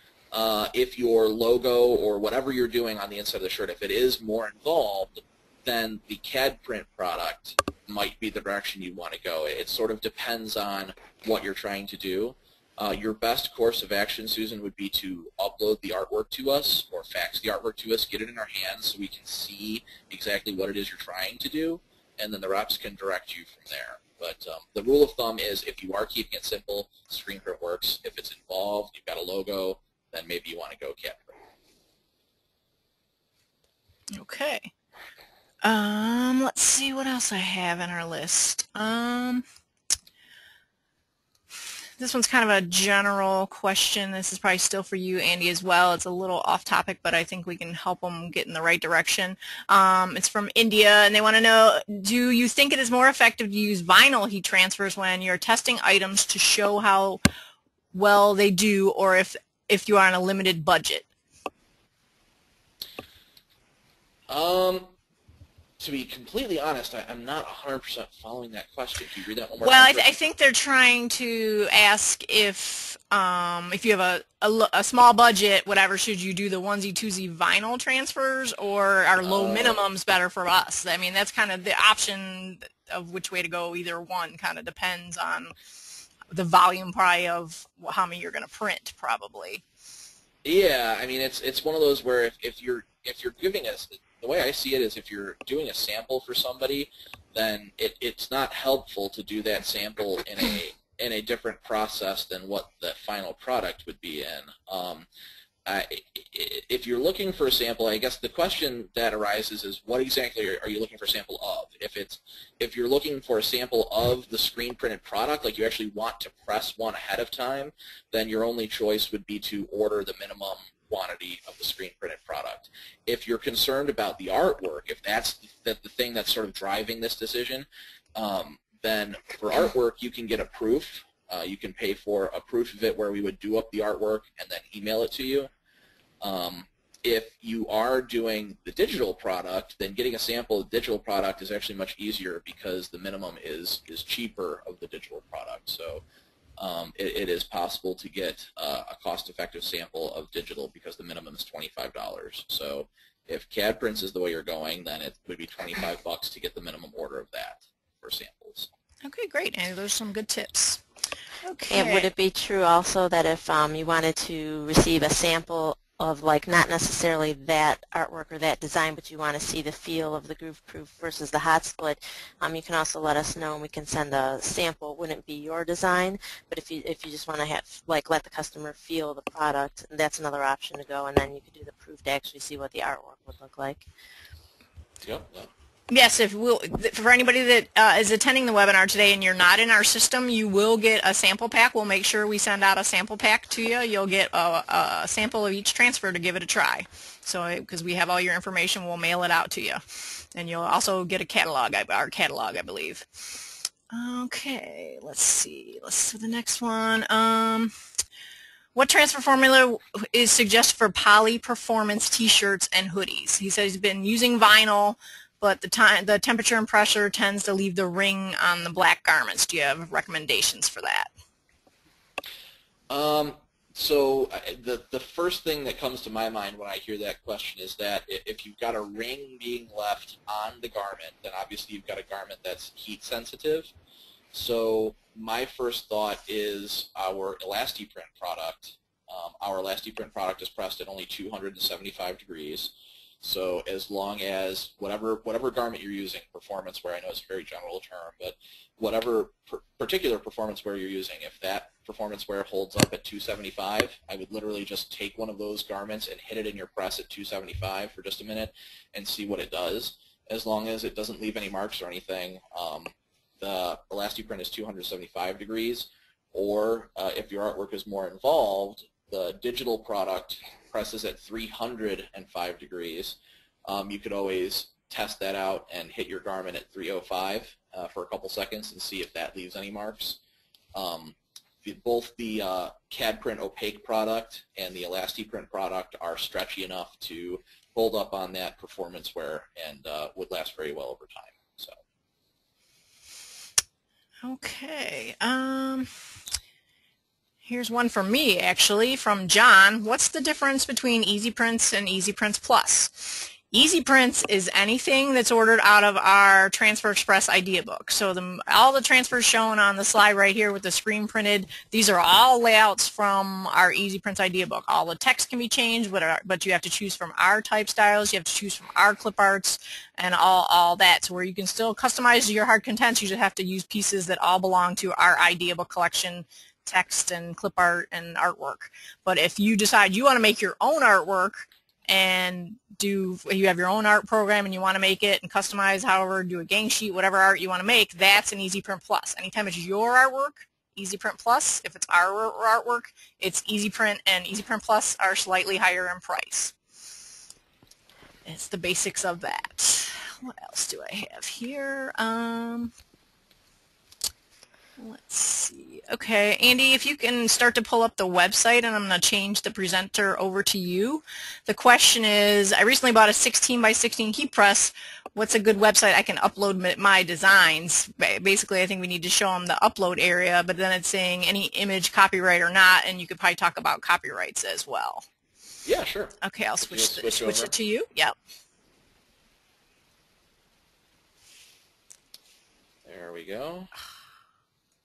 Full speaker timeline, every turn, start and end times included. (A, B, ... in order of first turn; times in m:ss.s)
0:00.3-0:31.4 A
0:34.1-0:34.7 B
0:35.6-0:39.4 B
0:42.0-0:57.2 B
0:57.9-1:01.1 B
1:04.3-1:04.9 A
1:05.8-1:10.1 A
1:09.6-1:25.5 B
1:19.2-1:19.8 A
1:26.3-1:29.6 B
1:30.4-1:45.1 A
1:45.7-2:15.5 A
2:16.2-2:26.0 A
2:26.6-2:38.7 A
2:39.0-2:40.8 B
2:41.4-2:42.1 B
2:41.7-3:03.9 C
3:05.0-3:05.5 A
3:05.9-3:23.1 B
3:23.9-3:27.7 B
3:28.8-3:41.1 B
3:42.9-3:53.7 A
3:54.3-4:40.2 A
4:40.7-4:51.8 A
4:54.2-4:55.9 B
4:57.4-5:46.6 B
5:48.2-5:52.7 B
5:54.8-6:15.0 B
6:15.6-6:17.5 A
6:16.2-6:18.1 B
6:22.8-6:23.7 A